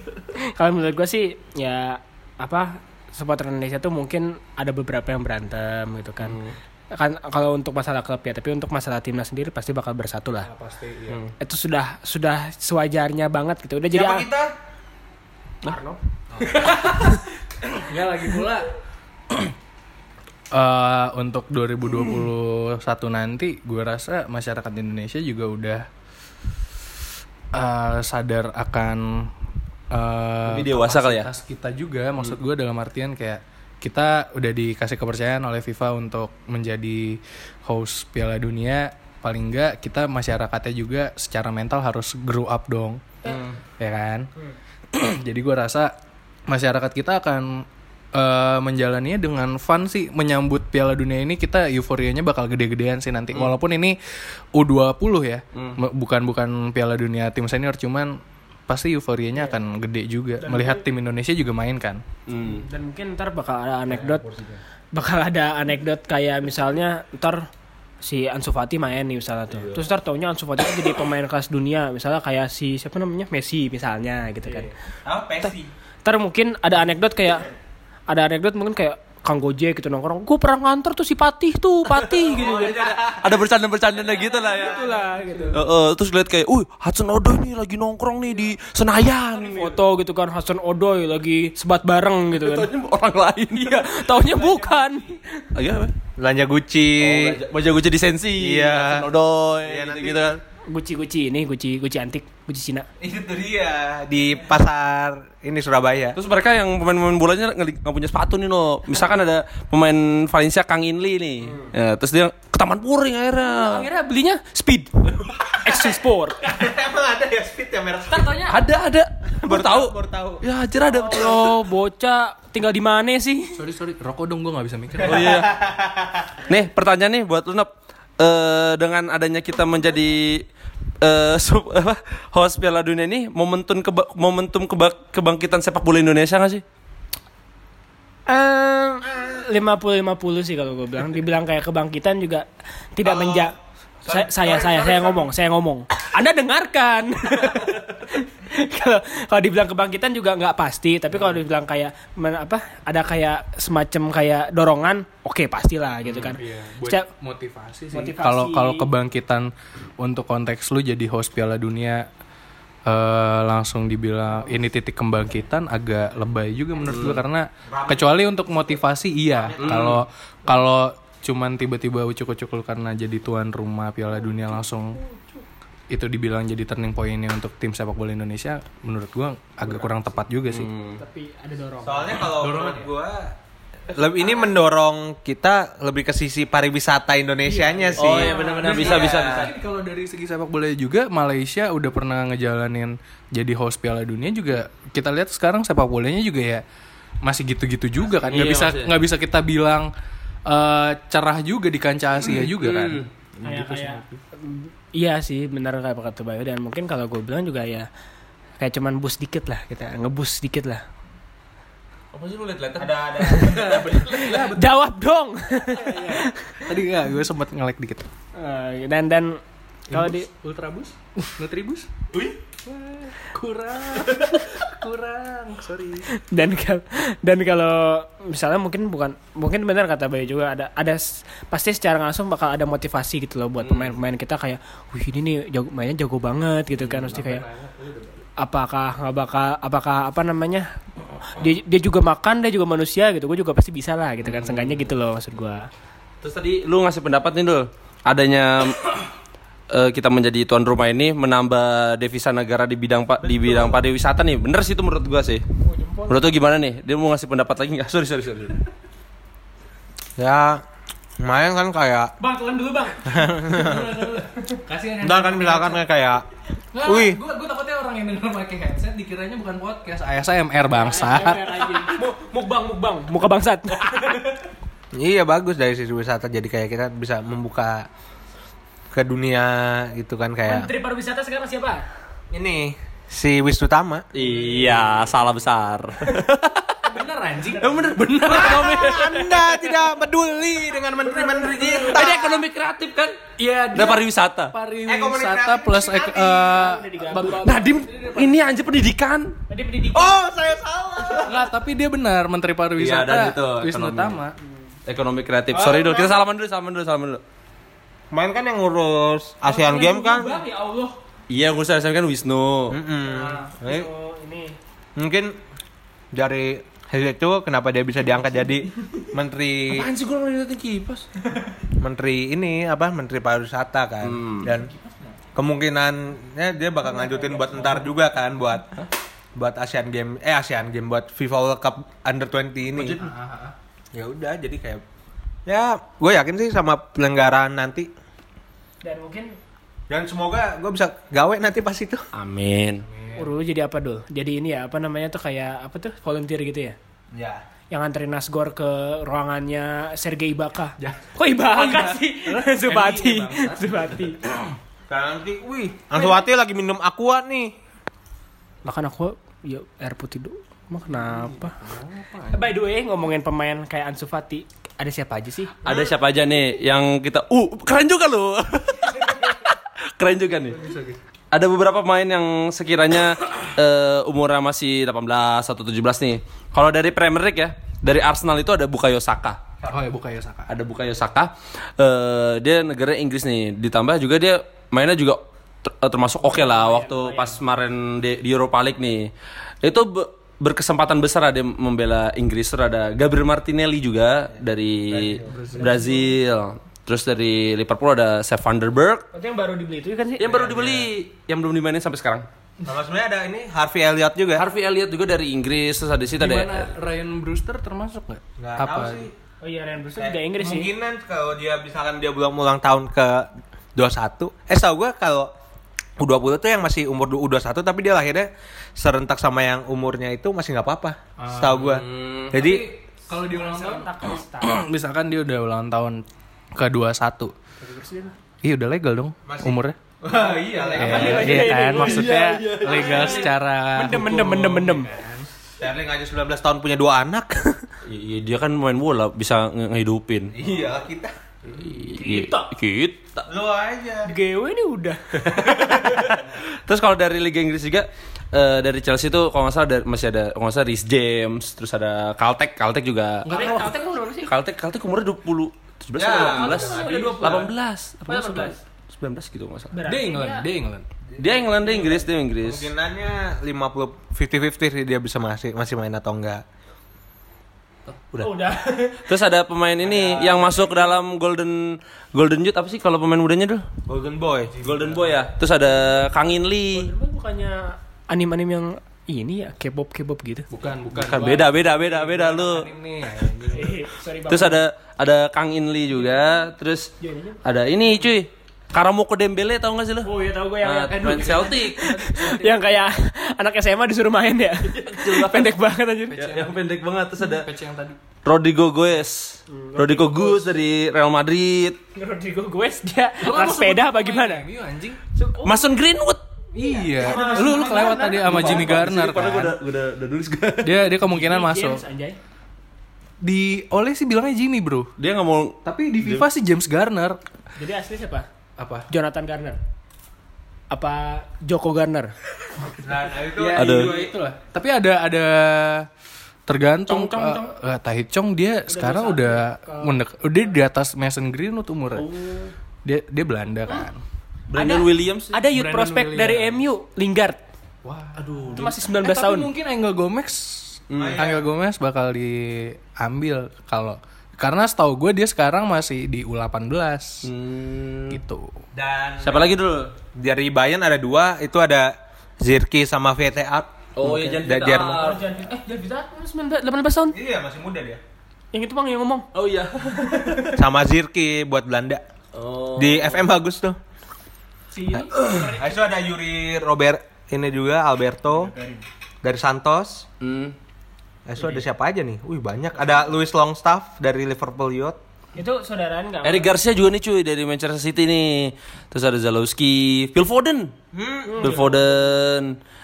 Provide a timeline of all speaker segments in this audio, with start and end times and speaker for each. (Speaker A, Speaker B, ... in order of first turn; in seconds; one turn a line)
Speaker A: 0.3-6.4
Speaker B: 6.2-6.6
Speaker A: 6.9-10.5
Speaker C: 10.4-11.2
Speaker A: 11.4-14.3
Speaker D: 13.9-14.5
Speaker A: 15.7-16.0
Speaker C: 16.6-18.7
Speaker C: 20.5-25.9
Speaker C: 27.5-29.3
Speaker C: 29.9-43.2
Speaker B: 30.5-31.3
Speaker B: 43.3-43.6
Speaker C: 43.8-44.3
Speaker C: 44.9-45.9
Speaker C: 46.5-54.0
Speaker C: 54.5-62.0
Speaker B: 55.5-55.8
Speaker A: 60.4-60.8
Speaker B: 62.3-62.7
Speaker A: 62.4-64.2
Speaker D: 64.0-64.6
Speaker A: 64.9-67.5
Speaker A: 68.0-74.7
Speaker D: 75.0-75.7
Speaker A: 76.0-77.5
Speaker A: 78.1-82.9
Speaker D: 82.2-85.5
Speaker B: 82.3-84.8
Speaker A: 84.4-85.6
Speaker B: 85.5-89.8
Speaker A: 89.3-92.7
Speaker B: 92.3-94.1
Speaker A: 93.6-95.5
Speaker D: 94.3-94.9
Speaker B: 95.5-96.0
Speaker D: 96.2-97.4
Speaker B: 97.0-100.4
Speaker D: 98.4-99.1
Speaker D: 99.6-100.4
Speaker A: 100.7-102.9
Speaker D: 103.0-106.2
Speaker B: 106.2-113.9
Speaker A: 113.5-114.9
Speaker A: 115.5-116.4
Speaker D: 116.4-118.4
Speaker A: 118.1-118.6
Speaker B: 118.4-121.6
Speaker D: 119.4-120.4
Speaker A: 120.9-123.6
Speaker C: 123.5-125.4
Speaker B: 125.0-125.5
Speaker D: 125.2-126.3
Speaker B: 126.5-130.5
Speaker B: 131.0-136.6
Speaker A: 138.3-143.6
Speaker D: 143.0-145.3
Speaker A: 144.1-157.1
Speaker C: 156.2-162.1
Speaker A: 157.9-158.9
Speaker C: 162.9-175.0
Speaker B: 166.9-167.2
Speaker D: 167.7-168.2
Speaker D: 169.3-170.0
Speaker B: 169.6-170.0
Speaker C: 175.9-180.7
Speaker B: 180.5-181.0
Speaker A: 181.0-182.3
Speaker D: 181.8-183.3
Speaker C: 182.1-182.9
Speaker D: 183.9-189.5
Speaker A: 187.5-188.8
Speaker B: 188.0-189.5
Speaker C: 188.1-196.6
Speaker C: 197.2-199.9
Speaker B: 198.2-198.9
Speaker C: 200.5-204.2
Speaker B: 202.3-203.1
Speaker A: 203.4-207.9
Speaker A: 208.6-210.8
Speaker B: 212.1-214.5
Speaker D: 212.8-213.8
Speaker A: 213.2-216.6
Speaker C: 213.6-214.7
Speaker C: 215.7-218.1
Speaker A: 218.4-220.3
Speaker C: 219.9-221.9
Speaker C: 222.7-226.1
Speaker A: 226.1-237.4
Speaker B: 233.6-233.9
Speaker C: 236.8-238.1
Speaker A: 238.4-240.7
Speaker A: 241.3-245.7
Speaker B: 244.2-244.8
Speaker B: 246.2-249.1
Speaker B: 249.7-255.4
Speaker D: 253.2-253.8
Speaker A: 255.6-256.3
Speaker B: 256.1-258.6
Speaker D: 260.2-260.6
Speaker D: 261.2-262.1
Speaker A: 262.2-263.2
Speaker D: 263.1-264.0
Speaker C: 263.3-265.9
Speaker D: 265.0-266.2
Speaker C: 266.7-272.0
Speaker D: 266.8-267.2
Speaker A: 270.7-274.2
Speaker C: 273.9-274.3
Speaker D: 274.9-277.9
Speaker D: 278.9-280.7
Speaker A: 280.4-281.9
Speaker D: 282.3-284.1
Speaker B: 284.1-286.8
Speaker C: 286.9-289.8
Speaker B: 287.6-288.9
Speaker D: 288.2-292.4
Speaker C: 291.0-292.1
Speaker B: 291.8-294.5
Speaker C: 293.4-298.6
Speaker D: 294.9-296.7
Speaker A: 296.5-297.7
Speaker B: 297.4-299.4
Speaker A: 299.5-300.2
Speaker D: 299.9-301.4
Speaker C: 301.2-304.4
Speaker B: 302.8-304.2
Speaker A: 304.4-304.7
Speaker B: 304.9-307.2
Speaker A: 305.5-306.2
Speaker D: 308.1-310.4
Speaker A: 309.4-311.0
Speaker B: 311.3-312.8
Speaker D: 312.7-313.9
Speaker A: 313.0-314.6
Speaker D: 315.0-315.4
Speaker D: 316.1-319.9
Speaker B: 319.7-321.1
Speaker D: 321.8-324.7
Speaker B: 324.0-324.5
Speaker D: 325.4-328.7
Speaker A: 326.8-327.9
Speaker D: 329.4-333.1
Speaker B: 332.8-333.1
Speaker C: 332.9-333.6
Speaker D: 333.9-334.8
Speaker D: 335.5-337.9
Speaker A: 338.8-339.4
Speaker D: 339.9-342.0
Speaker B: 342.1-342.9
Speaker C: 342.8-343.3
Speaker A: 343.1-346.8
Speaker D: 347.1-347.4
Speaker A: 347.7-354.2
Speaker C: 350.8-354.3
Speaker D: 354.9-357.6
Speaker A: 355.9-356.2
Speaker A: 358.6-361.6
Speaker C: 360.9-362.6
Speaker A: 362.3-365.6
Speaker B: 365.6-370.6
Speaker D: 365.6-365.9
Speaker C: 370.5-371.0
Speaker B: 371.3-379.4
Speaker C: 379.7-380.5
Speaker B: 380.5-389.1
Speaker A: 386.2-387.4
Speaker B: 389.6-399.1
Speaker D: 394.9-395.4
Speaker C: 395.3-396.1
Speaker A: 395.6-396.0
Speaker A: 399.1-400.5
Speaker B: 400.2-402.3
Speaker D: 400.4-400.9
Speaker D: 402.6-404.4
Speaker B: 404.4-406.7
Speaker C: 406.2-409.1
Speaker D: 408.4-409.1
Speaker A: 409.4-410.7
Speaker D: 410.0-415.3
Speaker D: 416.0-422.7
Speaker C: 421.2-421.8
Speaker B: 421.5-422.4
Speaker C: 422.3-426.0
Speaker A: 423.1-424.6
Speaker C: 426.6-427.3
Speaker A: 427.6-428.1
Speaker C: 428.4-429.8
Speaker D: 429.3-431.5
Speaker A: 430.5-434.9
Speaker C: 430.8-435.3
Speaker B: 430.8-433.4
Speaker D: 435.6-437.6
Speaker B: 437.9-440.3
Speaker D: 440.4-441.1
Speaker B: 441.5-443.2
Speaker A: 441.9-442.5
Speaker D: 443.3-444.1
Speaker A: 444.0-446.1
Speaker B: 445.2-453.7
Speaker A: 453.2-454.3
Speaker B: 454.3-459.7
Speaker D: 456.0-457.5
Speaker A: 456.1-457.5
Speaker A: 458.1-458.6
Speaker A: 459.7-460.5
Speaker C: 459.9-460.9
Speaker D: 461.1-466.4
Speaker B: 461.2-462.7
Speaker B: 467.9-468.3
Speaker A: 468.2-469.1
Speaker B: 468.9-473.6
Speaker D: 469.8-470.6
Speaker D: 473.9-474.6
Speaker B: 474.6-476.9
Speaker C: 474.6-475.1
Speaker A: 476.7-480.5
Speaker C: 480.5-483.8
Speaker B: 480.9-482.7
Speaker A: 483.5-484.6
Speaker B: 484.3-486.9
Speaker A: 487.0-487.4
Speaker B: 487.4-490.1
Speaker A: 490.0-496.2
Speaker B: 490.6-491.9
Speaker C: 490.9-492.8
Speaker B: 494.6-495.6
Speaker C: 496.1-498.0
Speaker B: 496.2-497.5
Speaker B: 498.2-501.8
Speaker A: 499.5-500.5
Speaker A: 501.9-504.4
Speaker C: 503.2-505.0
Speaker A: 505.1-505.6
Speaker B: 505.4-506.2
Speaker C: 506.5-509.6
Speaker A: 506.6-508.7
Speaker D: 506.9-508.6
Speaker B: 508.0-510.9
Speaker C: 510.6-511.8
Speaker A: 511.0-512.2
Speaker C: 513.2-514.9
Speaker B: 515.0-516.3
Speaker C: 515.6-517.2
Speaker A: 517.6-518.3
Speaker C: 518.6-518.9
Speaker A: 518.9-519.6
Speaker A: 520.7-522.1
Speaker D: 522.8-524.1
Speaker C: 523.3-525.9
Speaker B: 523.5-524.0
Speaker C: 526.5-532.1
Speaker A: 526.9-527.5
Speaker A: 528.7-530.0
Speaker B: 532.0-532.5
Speaker C: 532.8-534.0
Speaker B: 534.5-535.4
Speaker A: 534.5-537.4
Speaker C: 535.5-536.6
Speaker C: 537.8-538.3
Speaker B: 538.2-538.8
Speaker A: 538.5-539.5
Speaker C: 539.0-547.3
Speaker B: 540.9-541.2
Speaker D: 541.0-541.5
Speaker B: 547.2-548.2
Speaker C: 548.1-548.5
Speaker D: 548.7-549.5
Speaker B: 549.2-549.9
Speaker D: 550.1-555.2
Speaker B: 554.0-555.3
Speaker A: 554.7-557.2
Speaker D: 557.1-558.0
Speaker A: 558.5-559.3
Speaker B: 559.3-560.6
Speaker D: 560.5-562.0
Speaker B: 562.3-563.3
Speaker D: 562.8-563.8
Speaker A: 564.7-565.8
Speaker B: 565.1-565.5
Speaker D: 565.5-568.5
Speaker A: 568.3-568.8
Speaker D: 569.2-570.1
Speaker B: 570.2-570.6
Speaker D: 571.3-575.0
Speaker A: 575.4-576.5
Speaker B: 576.2-580.7
Speaker D: 580.9-581.6
Speaker A: 581.3-581.9
Speaker B: 581.4-582.6